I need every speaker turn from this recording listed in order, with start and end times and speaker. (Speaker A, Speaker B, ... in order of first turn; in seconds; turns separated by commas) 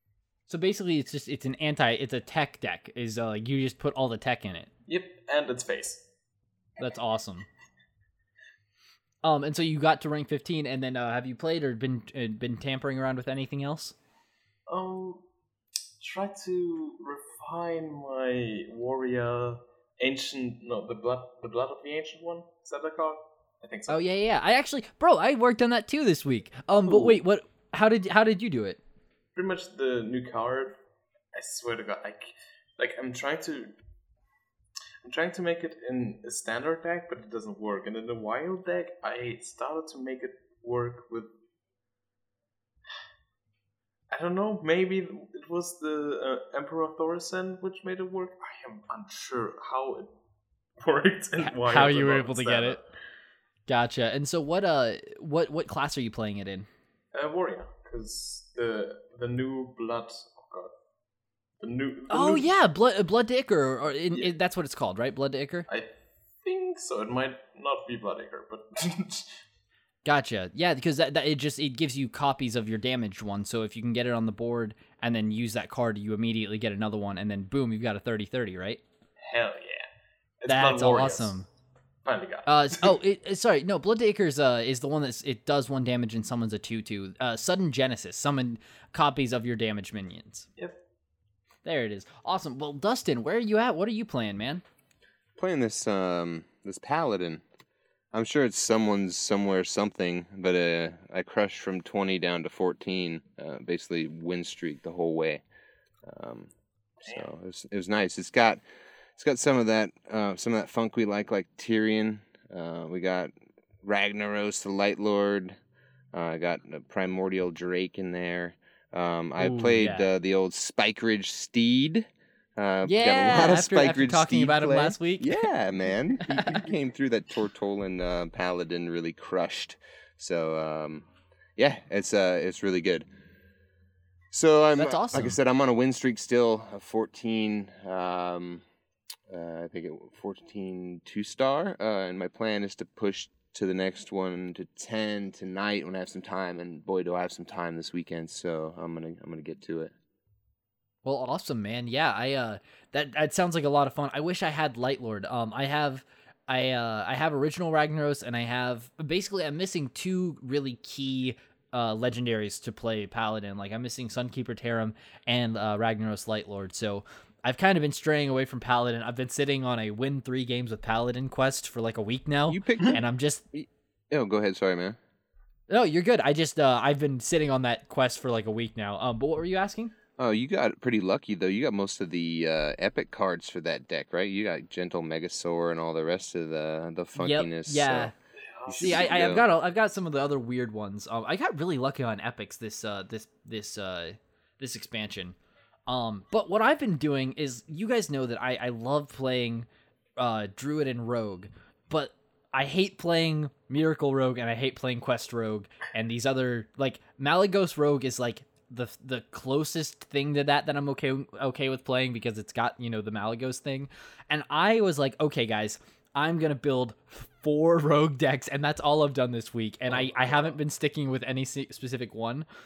Speaker A: 0.5-4.7, Speaker B: 4.9-6.0, Speaker A: 6.8-7.5, Speaker A: 9.2-13.9, Speaker B: 14.7-15.2, Speaker B: 16.0-24.1, Speaker A: 23.9-28.8, Speaker B: 26.9-27.1, Speaker B: 29.4-30.8, Speaker B: 31.3-33.7, Speaker B: 35.0-41.3, Speaker B: 44.1-50.1, Speaker B: 50.8-52.8, Speaker A: 51.4-52.8, Speaker A: 53.7-56.7, Speaker B: 57.1-60.7, Speaker B: 61.6-62.5, Speaker A: 62.1-65.7, Speaker B: 65.7-69.4, Speaker A: 70.0-78.8, Speaker B: 79.2-79.9, Speaker B: 80.4-81.4, Speaker A: 80.5-81.5, Speaker B: 82.0-82.9, Speaker A: 82.5-90.5, Speaker A: 91.6-94.6, Speaker C: 95.4-97.4, Speaker C: 98.1-105.4, Speaker C: 106.0-106.5, Speaker C: 107.0-108.6, Speaker C: 109.2-115.6, Speaker C: 116.1-133.1, Speaker A: 119.4-120.1, Speaker A: 122.8-125.5, Speaker A: 126.3-126.6, Speaker C: 134.3-138.6, Speaker A: 134.8-135.3, Speaker C: 139.3-149.9, Speaker A: 151.0-173.4, Speaker C: 172.5-173.0, Speaker C: 173.5-175.0, Speaker A: 175.7-179.9, Speaker C: 180.2-188.1, Speaker A: 187.2-188.1, Speaker B: 188.6-189.3, Speaker C: 188.7-189.4, Speaker A: 188.8-195.3, Speaker A: 195.9-199.7, Speaker A: 200.2-222.5, Speaker B: 219.9-220.6